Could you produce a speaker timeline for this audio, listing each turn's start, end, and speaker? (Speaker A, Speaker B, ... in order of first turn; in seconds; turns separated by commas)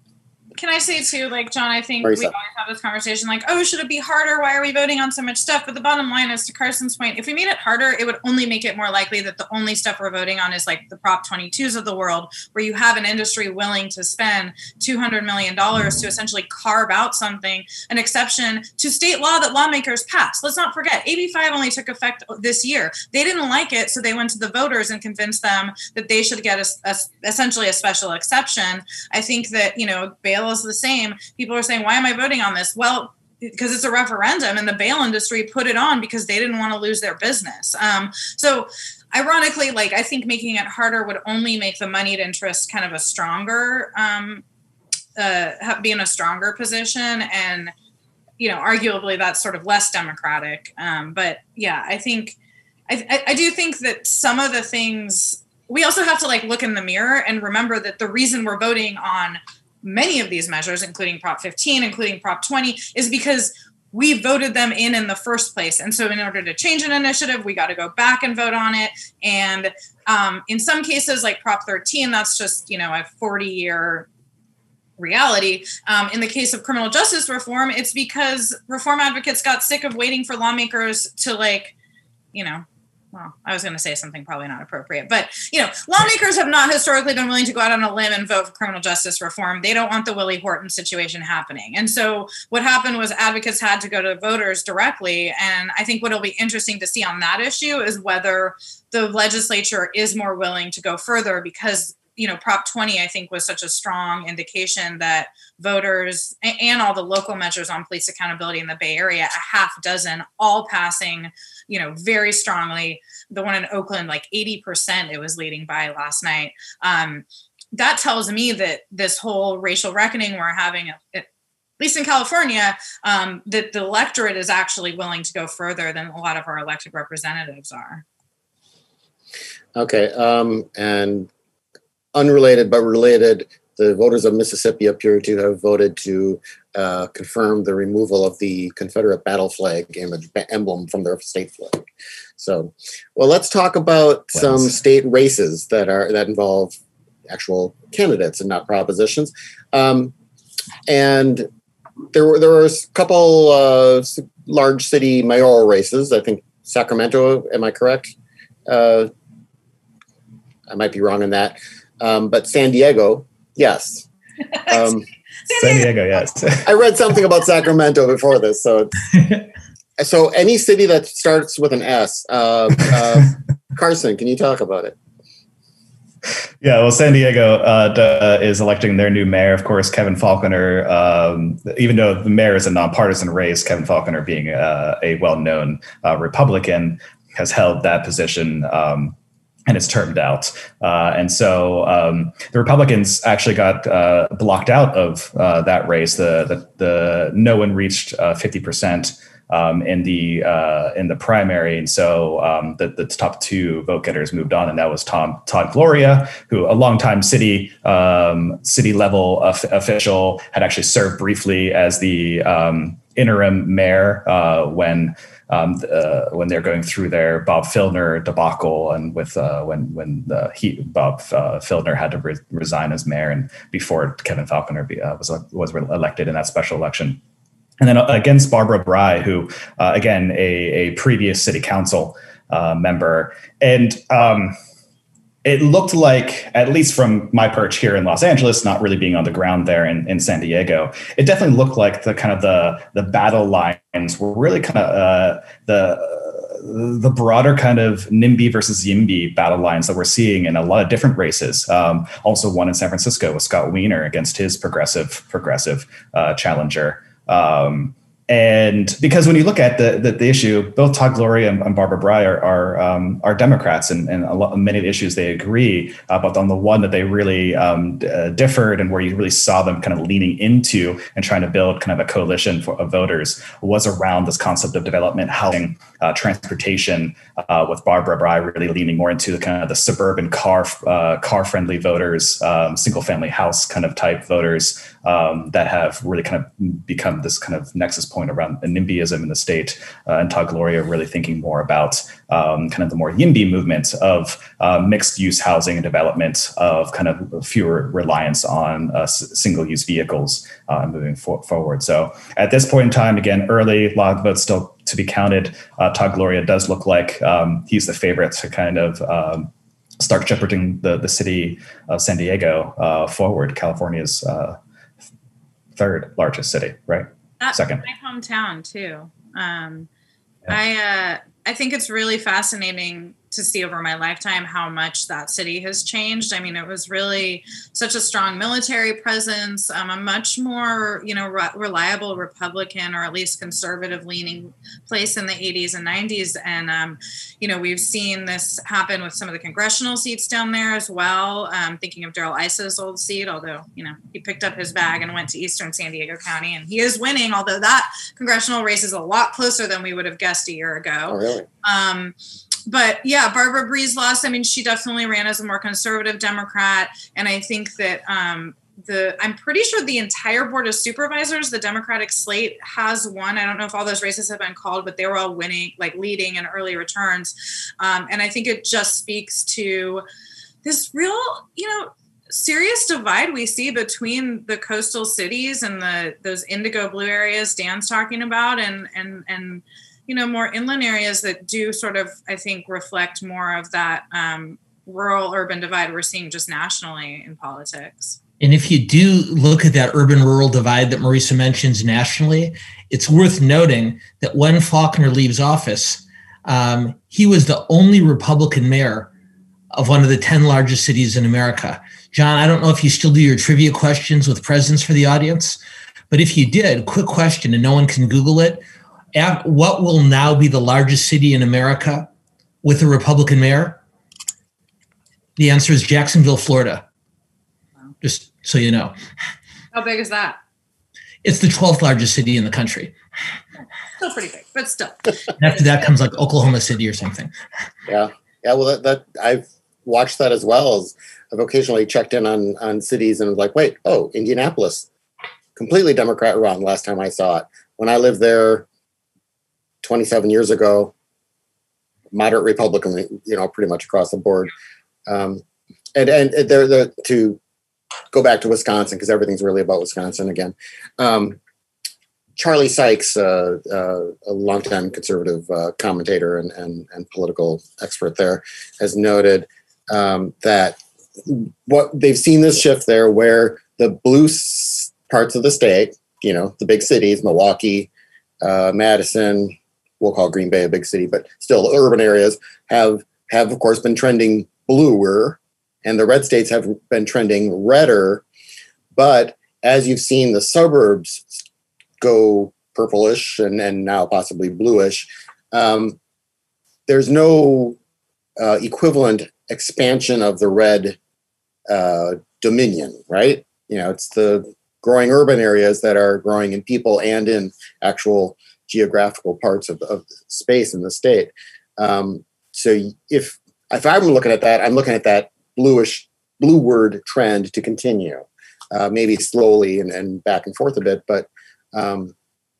Speaker A: 0.6-44.4, Speaker B: 2.0-2.3, Speaker A: 45.1-47.7, Speaker A: 48.4-52.4, Speaker A: 52.9-74.1, Speaker A: 75.0-81.7, Speaker A: 82.3-121.3, Speaker A: 121.8-128.0, Speaker B: 129.7-131.3, Speaker B: 132.1-150.1, Speaker C: 144.4-144.6, Speaker B: 150.9-151.4, Speaker B: 152.1-158.1, Speaker B: 158.7-159.1, Speaker B: 160.7-164.1, Speaker A: 164.5-164.9, Speaker B: 164.7-165.1, Speaker A: 165.4-165.9, Speaker C: 165.6-166.7, Speaker B: 166.6-169.0, Speaker B: 170.0-175.0, Speaker C: 176.6-189.1, Speaker C: 189.7-227.2, Speaker C: 227.8-234.6, Speaker C: 235.4-314.6, Speaker C: 315.8-317.8, Speaker A: 317.4-319.9, Speaker A: 320.5-352.1, Speaker B: 351.1-351.5, Speaker A: 352.6-370.0, Speaker A: 370.6-388.2, Speaker D: 388.4-399.1, Speaker D: 399.7-405.6, Speaker D: 406.1-408.6, Speaker D: 409.1-412.1, Speaker D: 412.6-413.8, Speaker D: 415.4-416.8, Speaker D: 418.0-418.9, Speaker A: 419.7-420.4, Speaker D: 421.2-422.9, Speaker A: 424.0-425.2, Speaker D: 425.4-427.3, Speaker B: 427.9-434.9, Speaker B: 435.6-438.6, Speaker B: 439.8-440.9, Speaker B: 442.1-444.5, Speaker B: 445.1-445.4, Speaker B: 445.9-447.4, Speaker B: 448.1-451.4, Speaker B: 452.4-467.9, Speaker B: 468.4-478.2, Speaker B: 478.9-481.4, Speaker B: 482.0-486.0, Speaker B: 486.9-487.8, Speaker B: 488.4-491.0, Speaker B: 491.7-512.1